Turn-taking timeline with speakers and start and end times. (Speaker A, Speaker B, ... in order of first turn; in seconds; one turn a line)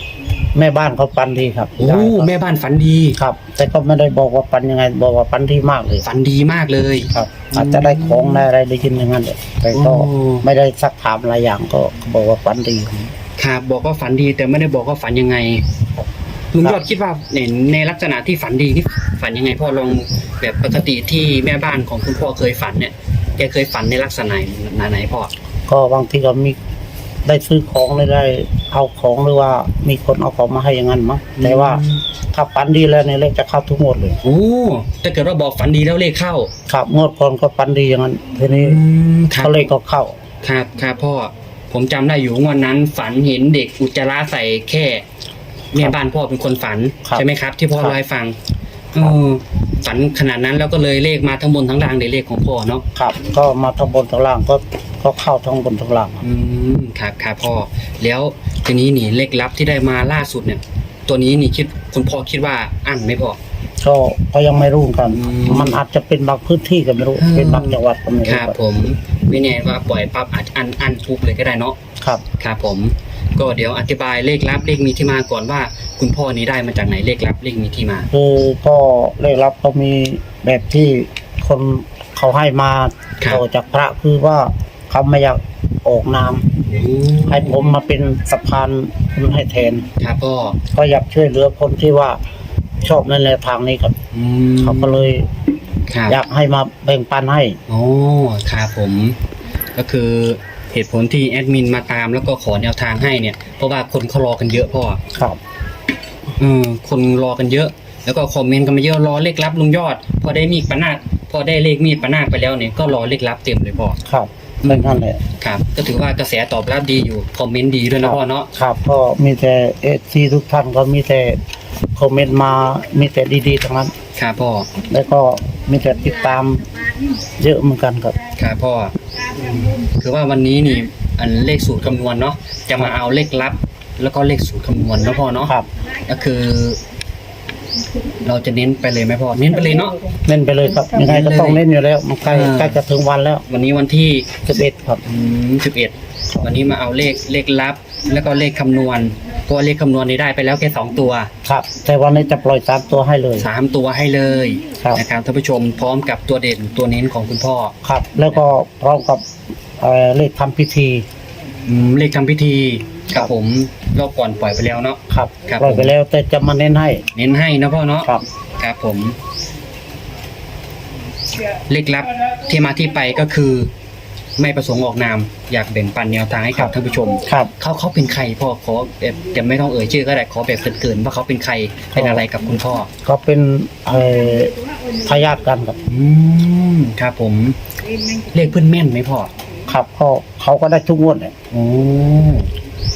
Speaker A: 0.6-2.3
Speaker B: 1.8-3.2
Speaker A: 3.2-6.1
Speaker B: 6.0-8.5
Speaker A: 7.1-13.1
Speaker B: 9.7-10.4
Speaker B: 13.4-15.7
Speaker B: 16.5-25.3
Speaker A: 25.7-26.6
Speaker A: 27.2-34.2
Speaker B: 31.4-32.0
Speaker B: 34.2-36.5
Speaker A: 36.7-38.8
Speaker B: 38.6-39.6
Speaker A: 39.4-40.2
Speaker B: 40.4-45.0
Speaker B: 45.7-48.4
Speaker A: 47.0-48.0
Speaker B: 48.9-52.9
Speaker A: 53.0-56.2
Speaker B: 56.2-63.4
Speaker A: 63.8-68.6
Speaker B: 65.1-65.8
Speaker B: 67.2-71.8
Speaker B: 72.4-78.1
Speaker A: 78.1-86.6
Speaker B: 86.7-87.6
Speaker A: 87.3-89.9
Speaker B: 90.0-90.6
Speaker A: 90.7-92.2
Speaker A: 92.8-94.0
Speaker B: 94.1-95.0
Speaker A: 94.6-95.3
Speaker B: 95.9-96.2
Speaker A: 96.1-97.6
Speaker B: 97.7-99.2
Speaker B: 99.8-105.0
Speaker A: 105.1-105.4
Speaker B: 106.4-114.0
Speaker A: 114.0-115.2
Speaker B: 114.6-118.5
Speaker A: 118.0-121.4
Speaker A: 122.0-123.9
Speaker B: 124.2-124.7
Speaker A: 124.9-126.7
Speaker A: 127.4-128.2
Speaker B: 128.4-136.8
Speaker B: 138.2-140.0
Speaker A: 140.3-143.4
Speaker B: 140.9-141.6
Speaker B: 142.2-142.8
Speaker B: 143.5-144.4
Speaker A: 144.5-145.0
Speaker B: 145.1-151.3
Speaker A: 151.4-153.5
Speaker B: 153.4-157.8
Speaker A: 157.8-159.3
Speaker A: 159.8-161.1
Speaker B: 161.7-165.9
Speaker A: 165.1-167.0
Speaker B: 167.1-169.2
Speaker B: 171.5-173.7
Speaker B: 174.4-182.9
Speaker A: 181.9-182.2
Speaker A: 183.1-185.8
Speaker B: 185.9-187.6
Speaker B: 188.3-189.3
Speaker A: 189.7-191.3
Speaker B: 191.5-192.5